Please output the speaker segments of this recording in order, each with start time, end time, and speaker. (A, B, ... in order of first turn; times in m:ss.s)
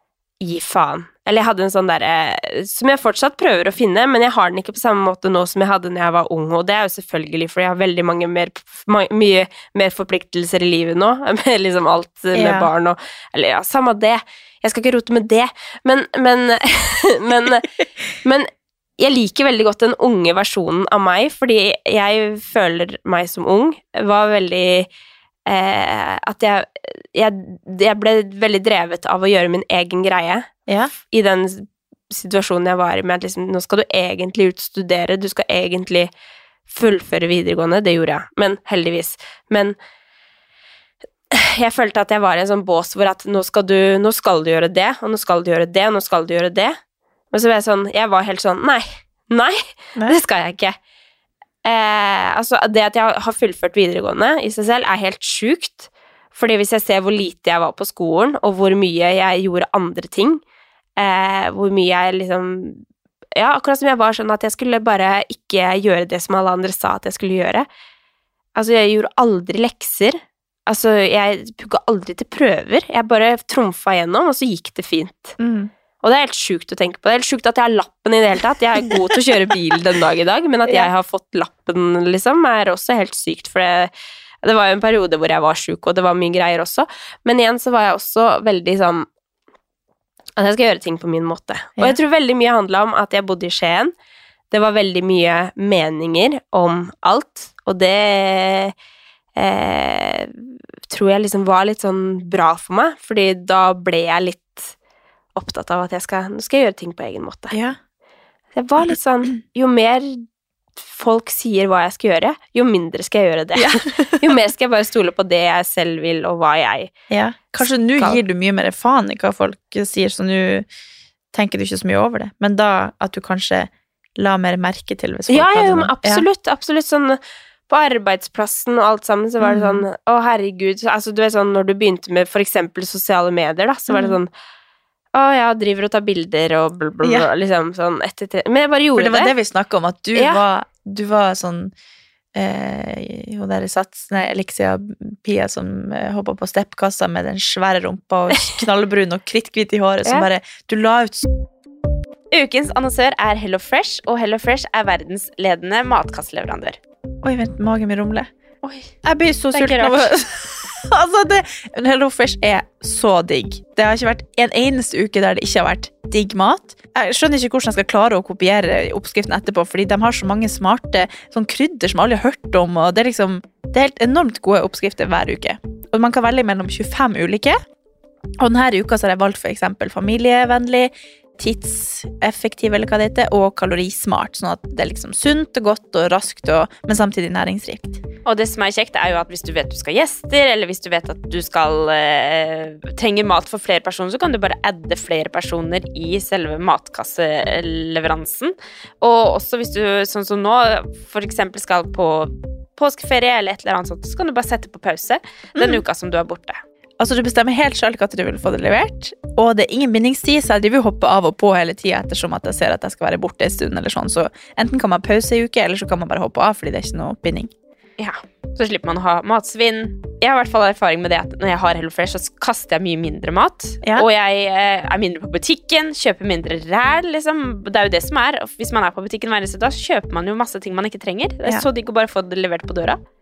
0:00.4-0:17.7 A
0:12.3-0:12.7 B
0:18.2-0:24.9 A
0:25.5-0:30.5 A
0:30.7-0:30.9 B
0:31.1-0:36.1 A
0:36.7-0:39.8 A
0:41.3-0:46.8 A
0:47.3-0:50.8 A
0:51.6-1:00.4 A
1:01.0-1:02.8 A
1:03.4-1:07.7 A
1:08.5-1:15.4 A
1:15.4-1:15.7 B
1:16.0-1:23.9 A
1:24.4-1:29.1 A
1:30.4-1:33.9 A
1:34.5-1:38.7 A
1:39.4-1:44.7 A
1:45.4-1:47.5 A
1:47.5-1:47.8 B
1:48.5-1:50.2 A
1:50.8-1:56.9 A
1:53.6-1:54.2 B
1:57.1-2:00.7 B
1:57.6-1:58.2 A
2:01.3-2:06.2 B
2:05.3-2:14.3 A
2:09.4-2:09.9 B
2:13.9-2:14.2 B
2:15.1-2:19.4 A
2:17.0-2:17.3 B
2:18.9-2:21.7 B
2:20.1-2:20.4 A
2:22.3-2:31.3 B
2:32.3-2:36.8 C
2:37.2-2:38.3 B
2:39.0-2:57.6 B
2:39.5-2:40.1 A
2:58.4-3:08.0 B
3:08.2-3:26.6 C
3:25.6-3:25.8 B
3:27.0-3:37.5 B
3:38.0-3:53.0 C